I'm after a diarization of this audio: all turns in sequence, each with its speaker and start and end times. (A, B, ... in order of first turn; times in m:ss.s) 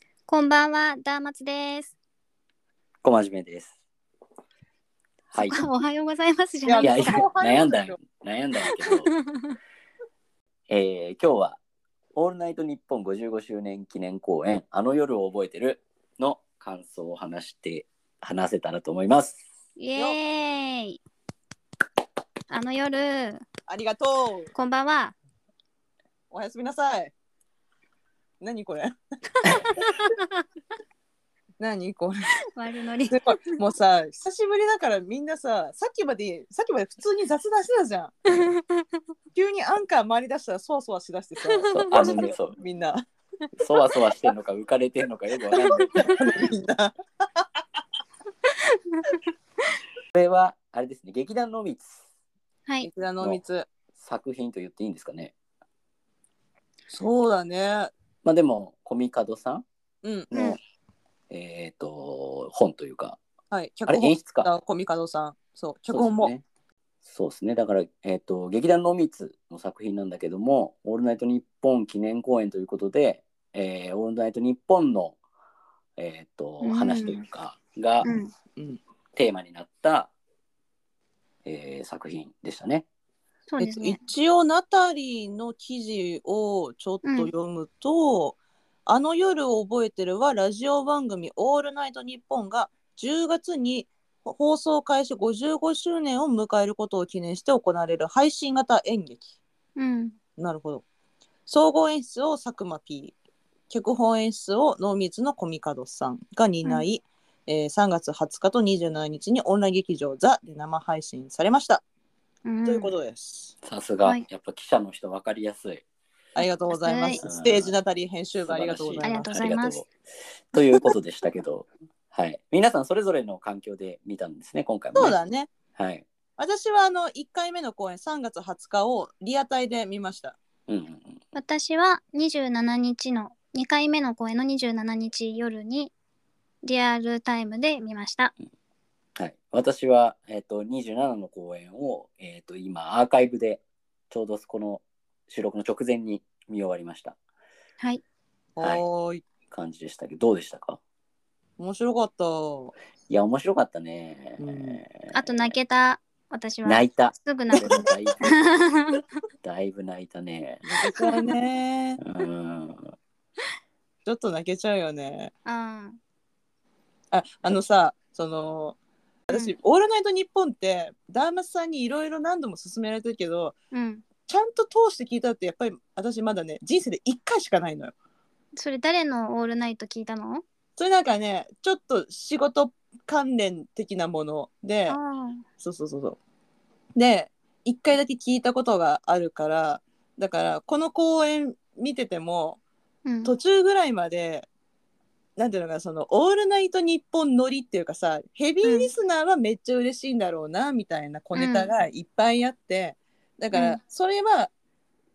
0:00.3-0:01.9 A
0:03.0-0:03.7 B
0:05.3-0:05.6 B
0:05.4-0:07.3 A
0:06.7-0:08.0 C
0:06.8-0:09.1 B
0:08.7-0:09.5 A
0:10.7-0:11.6 B
0:12.2-0:19.4 B
0:19.8-0:21.0 A
0:22.5-0:23.5 A
0:23.7-0:24.5 C
0:24.6-0:25.2 A
0:26.3-0:27.1 C
0:28.4-0:28.9 C
0:29.4-0:30.4 A
0:31.6-0:32.3 C
0:32.6-0:33.5 A
0:33.1-0:38.2 C
0:38.3-0:38.9 A
0:39.4-0:43.0 C
0:41.4-0:42.3 A
0:41.7-0:42.6 B
0:43.6-0:46.2 B
0:45.6-0:47.5 C
0:45.7-0:46.1 A
0:48.8-0:49.2 A
0:50.1-0:52.0 B
0:52.8-0:53.7 C
0:54.0-0:55.3 B
0:56.9-0:57.9 C
0:58.2-0:59.6 B
1:00.0-1:00.3 C
1:00.3-1:00.6 B
1:01.3-1:03.2 B
1:03.5-1:06.3 C
1:03.9-1:04.5 B
1:05.9-1:06.4 B
1:07.0-1:15.2 B
1:16.0-1:18.1 B
1:16.6-1:17.2 A
1:18.0-1:18.3 A
1:18.6-1:18.8 C
1:19.1-1:20.1 B
1:21.4-1:22.9 B
1:23.5-1:24.0 A
1:23.6-1:39.3 C
1:27.0-1:27.3 A
1:39.8-1:40.2 A
1:40.4-1:40.8 C
1:41.5-1:43.2 C
1:43.7-1:51.8 C
1:52.4-1:52.9 A
1:52.6-1:53.5 C
1:53.6-1:55.8 B
1:56.4-1:59.3 C
1:56.4-1:57.2 A
1:57.2-1:57.7 B
1:58.4-2:05.2 B
1:59.0-1:59.9 A
2:05.0-2:05.5 C
2:05.8-2:06.1 B
2:06.4-2:10.4 C
2:10.7-2:11.2 B
2:11.3-2:15.9 A
2:16.6-2:18.3 A
2:19.2-2:27.2 B
2:28.6-2:29.2 C
2:29.5-2:30.8 B
2:31.6-2:32.7 C
2:33.1-2:35.5 B
2:34.4-2:34.8 C
2:35.1-2:39.0 A
2:36.6-2:38.7 B
2:37.6-2:37.9 C
2:39.4-2:40.6 B
2:40.6-2:42.0 C
2:42.0-2:42.9 B
2:44.0-2:45.3 C
2:45.5-2:46.0 A
2:47.1-2:48.8 C
2:49.3-2:53.6 C
2:53.7-2:54.0 A
2:54.3-2:57.9 C
2:58.6-3:00.4 A
3:00.8-3:05.0 C
3:04.9-3:05.4 A
3:05.6-3:06.2 C
3:07.0-3:12.6 C
3:13.0-3:13.3 A
3:13.2-3:14.5 C
3:15.4-3:24.5 C
3:18.6-3:18.9 A
3:21.4-3:21.7 A
3:23.5-3:23.8 A